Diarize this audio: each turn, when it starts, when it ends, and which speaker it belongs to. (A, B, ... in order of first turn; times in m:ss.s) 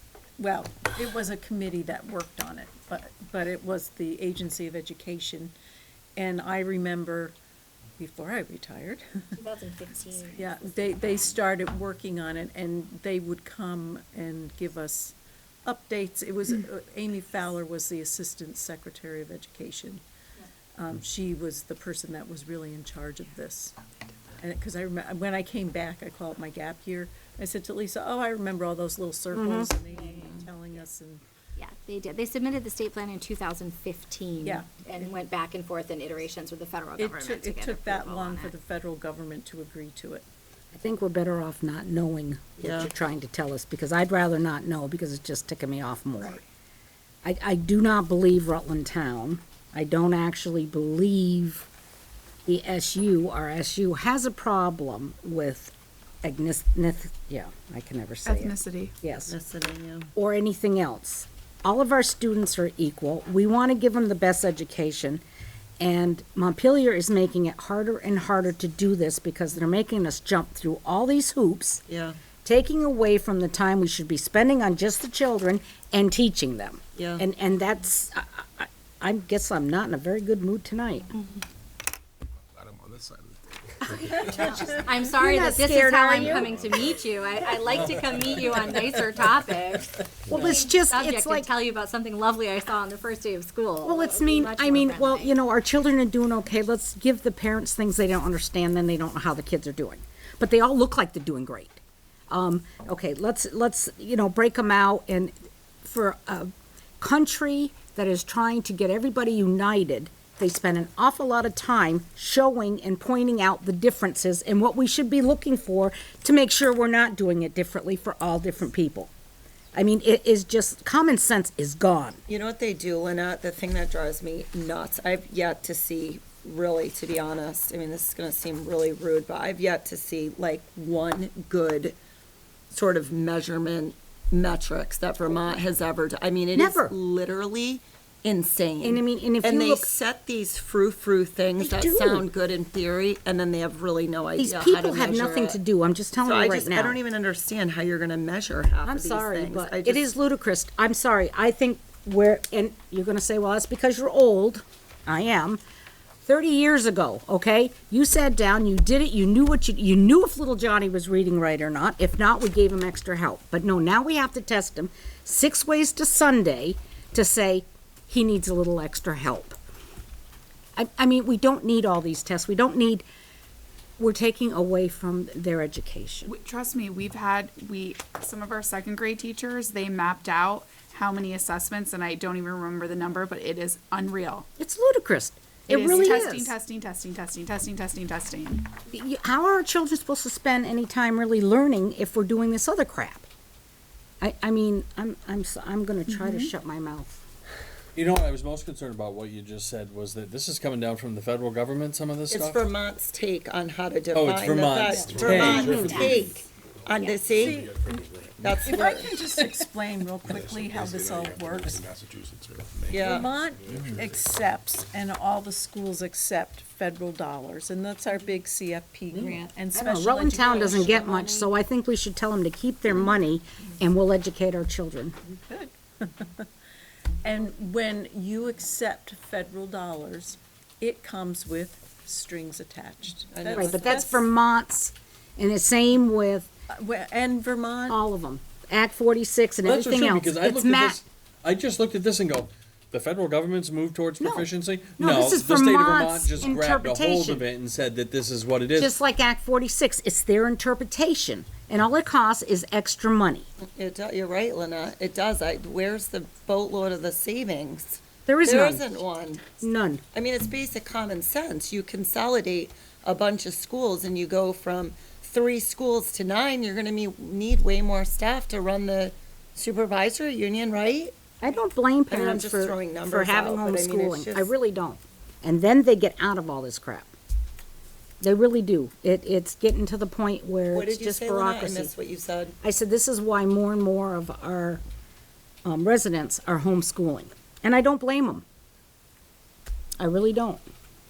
0:00.4-0:05.5 A
0:06.2-0:07.3 A
0:08.0-0:09.0 A
0:09.3-0:10.7 B
0:10.3-0:20.0 A
0:20.8-0:23.8 A
0:24.4-0:31.2 A
0:29.3-0:29.7 C
0:31.6-0:38.5 B
0:34.4-0:35.1 A
0:37.0-0:40.2 A
0:40.7-0:46.4 C
0:42.6-0:42.9 D
0:47.2-0:51.7 C
0:52.4-0:55.7 C
0:56.2-0:59.3 C
0:58.2-0:58.9 E
0:59.3-1:00.1 D
1:00.1-1:05.2 C
1:05.8-1:11.8 C
1:11.9-1:12.2 D
1:12.4-1:21.1 C
1:17.0-1:17.2 D
1:22.5-1:25.2 F
1:24.0-1:35.3 B
1:25.2-1:26.5 C
1:26.1-1:29.4 F
1:27.7-1:28.3 G
1:30.3-1:31.5 C
1:33.8-1:46.5 C
1:47.0-1:59.1 C
1:59.7-2:02.2 C
2:02.3-2:12.0 D
2:12.7-2:25.6 D
2:16.5-2:16.9 C
2:18.8-2:19.9 C
2:21.6-2:22.3 C
2:24.4-2:27.0 C
2:26.2-2:30.0 D
2:28.8-2:35.6 C
2:36.2-2:49.6 C
2:50.8-2:53.0 C
2:54.0-2:56.3 C
2:56.2-3:04.4 E
3:04.6-3:06.5 C
3:05.7-3:08.7 E
3:08.9-3:13.2 C
3:14.2-3:17.2 C
3:16.1-3:16.5 E
3:17.9-3:22.6 G
3:22.3-3:27.6 D
3:24.1-3:26.0 G
3:24.9-3:28.7 F
3:25.5-3:26.3 B
3:25.6-3:26.1 C
3:26.9-3:27.2 B
3:27.3-3:28.0 A
3:28.4-3:29.1 D
3:28.6-3:31.8 A
3:30.2-3:34.3 F
3:32.9-3:33.3 D
3:32.9-3:41.5 A
3:39.1-3:45.2 C
3:45.3-3:46.5 A
3:47.2-3:54.2 A
3:53.3-3:54.2 D
3:53.6-3:56.5 C
3:56.7-3:58.0 A
3:57.9-4:01.0 C
3:59.6-4:08.9 G
4:04.2-4:07.4 C
4:08.8-4:13.5 C
4:13.6-4:19.6 D
4:18.2-4:19.0 C
4:19.6-4:20.0 C
4:20.1-4:31.2 D
4:31.4-4:37.1 C
4:32.1-4:34.5 D
4:38.2-4:41.9 C
4:40.7-4:42.6 D
4:42.6-4:44.8 C
4:45.6-4:48.4 C
4:50.0-4:50.6 C